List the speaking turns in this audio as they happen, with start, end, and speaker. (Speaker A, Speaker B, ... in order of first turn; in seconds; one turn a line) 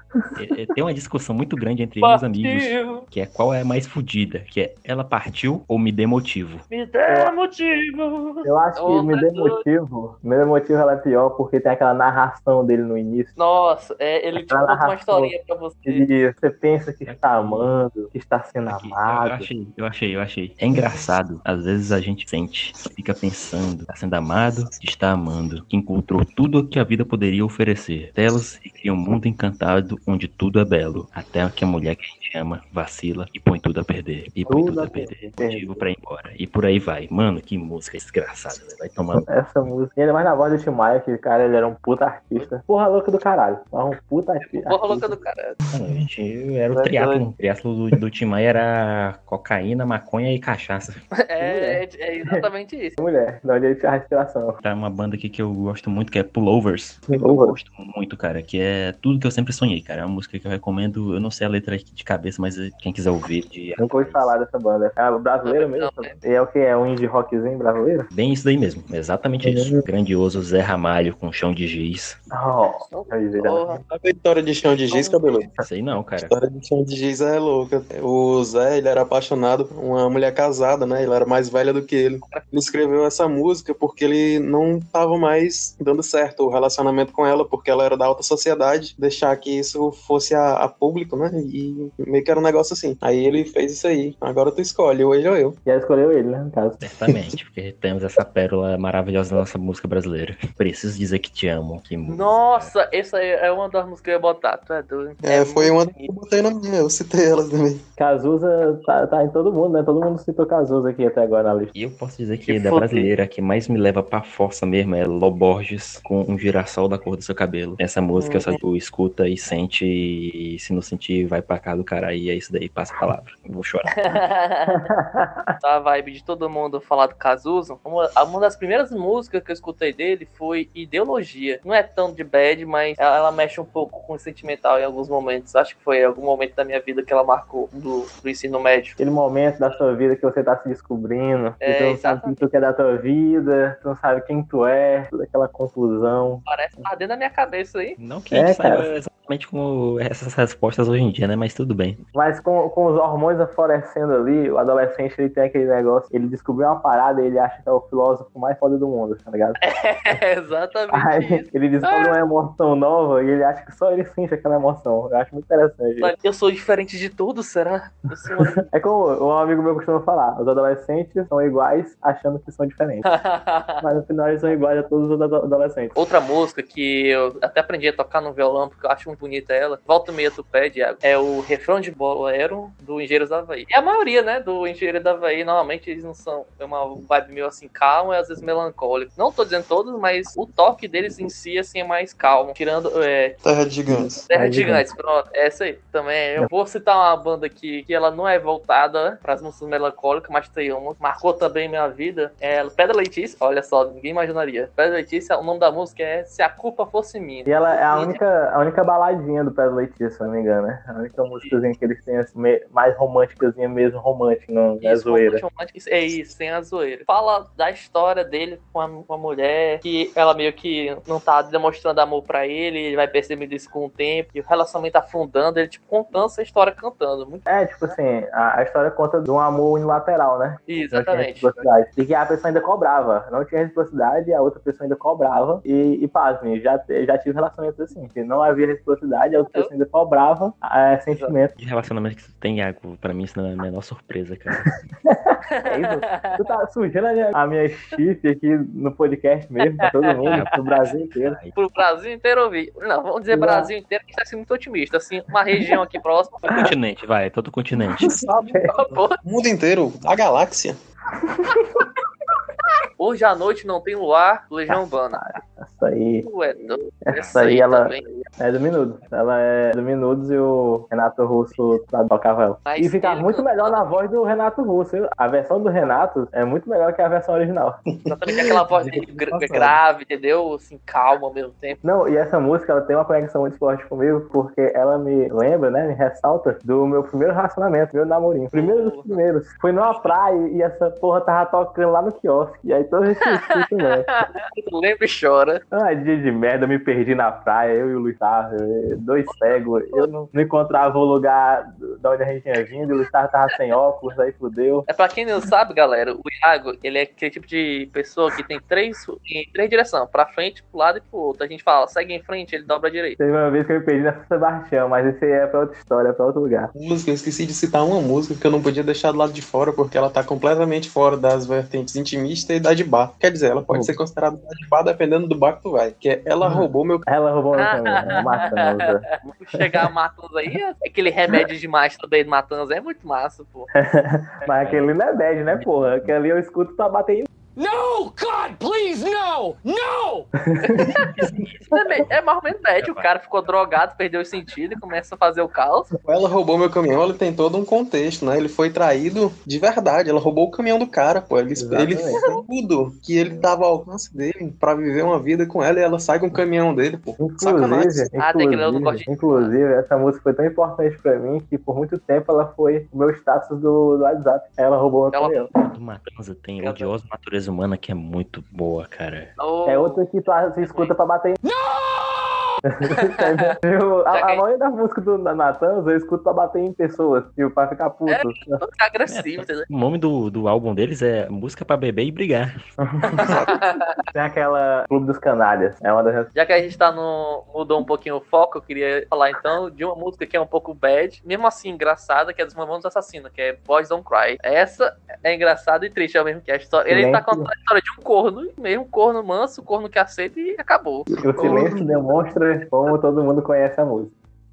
Speaker A: 0.4-6.7
Speaker B: 2.0-3.1
Speaker B: 6.7-9.6
Speaker C: 7.1-7.3
Speaker C: 8.4-13.3
Speaker B: 13.4-16.1
Speaker C: 14.4-15.3
Speaker C: 15.8-19.5
Speaker A: 17.1-17.7
Speaker A: 18.7-39.3
Speaker C: 34.5-35.8
Speaker C: 39.3-45.2
Speaker B: 44.4-45.6
Speaker A: 45.7-51.0
Speaker D: 46.7-47.3
Speaker B: 51.2-53.0
Speaker C: 51.4-52.5
Speaker C: 53.0-54.6
Speaker A: 54.6-64.3
Speaker D: 57.1-57.5
Speaker C: 57.2-57.5
Speaker C: 63.8-68.1
Speaker B: 65.5-66.2
Speaker A: 68.1-72.2
Speaker D: 69.4-69.8
Speaker C: 72.3-73.8
Speaker B: 72.9-73.8
Speaker D: 73.9-75.5
Speaker B: 74.9-75.5
Speaker A: 75.6-76.3
Speaker D: 76.2-95.6
Speaker C: 95.7-96.9
Speaker A: 96.8-102.7
Speaker B: 102.1-106.1
Speaker D: 105.2-107.8
Speaker C: 108.0-111.7
Speaker A: 111.7-124.0
Speaker B: 112.5-113.1
Speaker B: 124.0-124.9
Speaker C: 124.7-125.5
Speaker B: 125.6-139.0
Speaker C: 139.0-146.4
Speaker B: 141.6-142.4
Speaker B: 146.5-148.0
Speaker A: 148.0-152.0
Speaker C: 148.3-148.9
Speaker C: 152.1-159.6
Speaker B: 159.6-162.2
Speaker C: 160.9-166.1
Speaker B: 166.0-168.7
Speaker C: 168.7-173.1
Speaker B: 173.1-173.8
Speaker C: 173.8-176.0
Speaker B: 176.0-193.4
Speaker D: 193.4-194.3
Speaker C: 193.9-194.9
Speaker B: 194.3-208.2
Speaker C: 207.5-215.4
Speaker B: 214.8-227.5
Speaker C: 227.5-241.5
Speaker B: 230.7-231.7
Speaker A: 241.6-244.9
Speaker C: 244.7-251.4
Speaker B: 245.5-246.4
Speaker B: 249.8-250.4
Speaker A: 250.3-251.6
Speaker B: 251.5-256.7
Speaker C: 253.3-253.7
Speaker A: 256.5-258.1
Speaker D: 258.1-260.8
Speaker C: 258.5-258.8
Speaker B: 258.7-259.2
Speaker C: 261.2-261.9
Speaker B: 263.0-265.2
Speaker C: 264.7-266.3
Speaker B: 266.2-268.1
Speaker C: 267.1-277.8
Speaker B: 272.7-273.9
Speaker D: 278.0-279.8
Speaker B: 278.1-281.8
Speaker C: 281.8-294.1
Speaker B: 288.5-289.2
Speaker A: 289.8-290.1
Speaker B: 293.5-295.6
Speaker C: 295.7-304.9
Speaker B: 299.3-300.1
Speaker B: 304.9-313.2
Speaker C: 313.2-316.7
Speaker D: 316.8-327.1
Speaker C: 323.7-324.0
Speaker C: 326.4-329.8
Speaker B: 327.5-333.7
Speaker C: 333.7-337.3
Speaker A: 334.5-334.9
Speaker A: 335.5-336.1
Speaker E: 337.6-340.3
Speaker C: 340.5-340.9
Speaker B: 340.6-345.9
Speaker A: 341.2-342.1
Speaker A: 342.8-343.1
Speaker D: 346.0-358.1
Speaker C: 351.6-352.2
Speaker C: 357.2-365.5
Speaker B: 358.2-359.6
Speaker B: 365.1-365.4
Speaker A: 365.6-369.3
Speaker B: 366.6-366.9
Speaker B: 369.4-370.1
Speaker C: 369.7-371.4
Speaker B: 370.6-370.9
Speaker E: 371.4-372.6
Speaker C: 372.7-378.6
Speaker B: 373.0-373.3
Speaker B: 374.1-374.4
Speaker B: 378.1-379.7
Speaker A: 379.1-382.6
Speaker C: 382.8-383.3
Speaker B: 383.1-384.0
Speaker D: 383.2-383.6
Speaker C: 384.1-386.3
Speaker B: 386.4-401.1
Speaker C: 396.9-397.5
Speaker D: 401.1-401.9
Speaker C: 401.2-404.1